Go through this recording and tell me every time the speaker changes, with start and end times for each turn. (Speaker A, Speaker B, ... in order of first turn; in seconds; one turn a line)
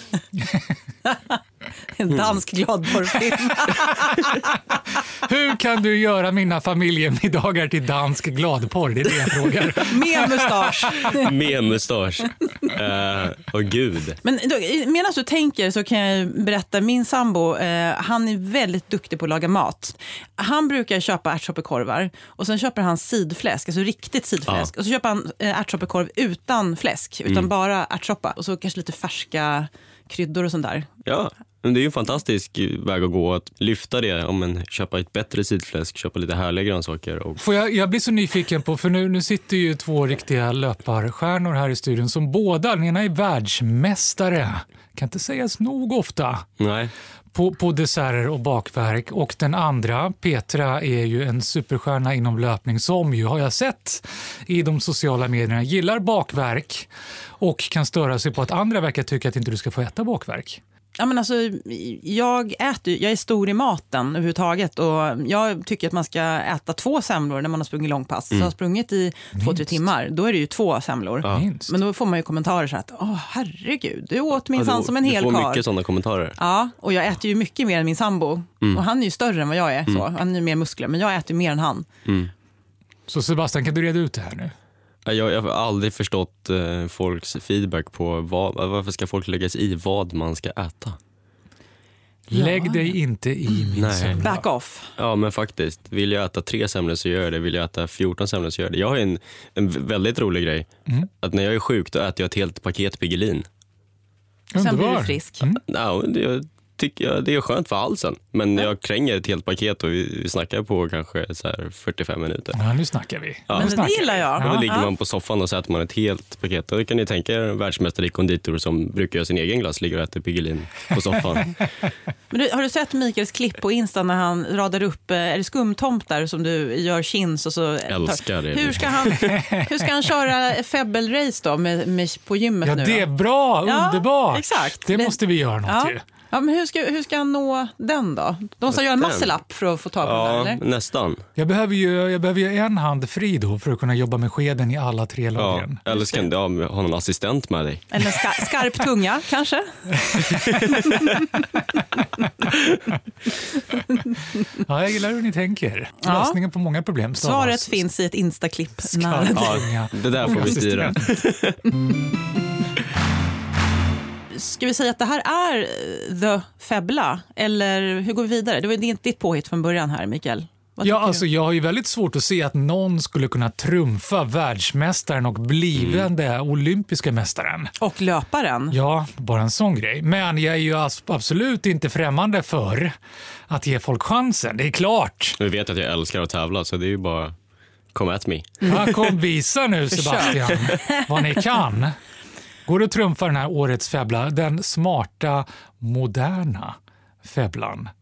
Speaker A: 0.3-0.7
Speaker B: 1.9-4.3
Speaker A: 3.6-4.1
Speaker A: 5.2-11.0
Speaker B: 9.8-11.3
Speaker C: 11.2-14.2
Speaker B: 14.2-30.9
Speaker C: 31.0-37.4
Speaker A: 37.4-46.4
Speaker C: 46.6-46.9
Speaker A: 47.3-56.9
Speaker A: 57.4-60.6
Speaker B: 61.0-75.6
Speaker A: 69.3-69.9
Speaker A: 71.2-71.8
Speaker C: 74.5-76.4
Speaker B: 76.4-81.8
Speaker C: 82.0-82.3
Speaker A: 83.1-84.5
Speaker C: 85.0-91.0
Speaker A: 92.3-94.4
Speaker B: 92.3-92.9
Speaker C: 93.8-94.3
Speaker B: 94.2-94.9
Speaker C: 95.0-100.7
Speaker C: 101.2-103.5
Speaker A: 104.5-105.6
Speaker B: 104.6-105.4
Speaker C: 105.7-112.6
Speaker A: 112.5-114.7
Speaker C: 113.5-121.6
Speaker B: 113.5-114.9
Speaker B: 122.3-133.1
Speaker C: 127.9-129.3
Speaker A: 129.3-129.7
Speaker A: 132.6-136.0
Speaker B: 133.6-140.6
Speaker C: 138.7-139.3
Speaker C: 140.0-141.2
Speaker A: 141.3-145.8
Speaker C: 145.4-147.9
Speaker B: 145.9-146.2
Speaker B: 147.9-149.7
Speaker A: 150.2-151.1
Speaker C: 150.4-150.9
Speaker A: 154.5-157.8
Speaker B: 156.0-156.4
Speaker B: 157.2-159.7
Speaker A: 158.8-161.0
Speaker C: 159.3-161.6
Speaker B: 164.3-171.2
Speaker A: 170.8-177.7
Speaker C: 175.7-176.1
Speaker B: 177.8-178.7
Speaker A: 178.7-182.9
Speaker A: 183.5-185.4
Speaker C: 185.4-187.3
Speaker C: 187.9-189.1
Speaker A: 188.6-191.9
Speaker B: 189.9-190.3
Speaker A: 192.7-197.9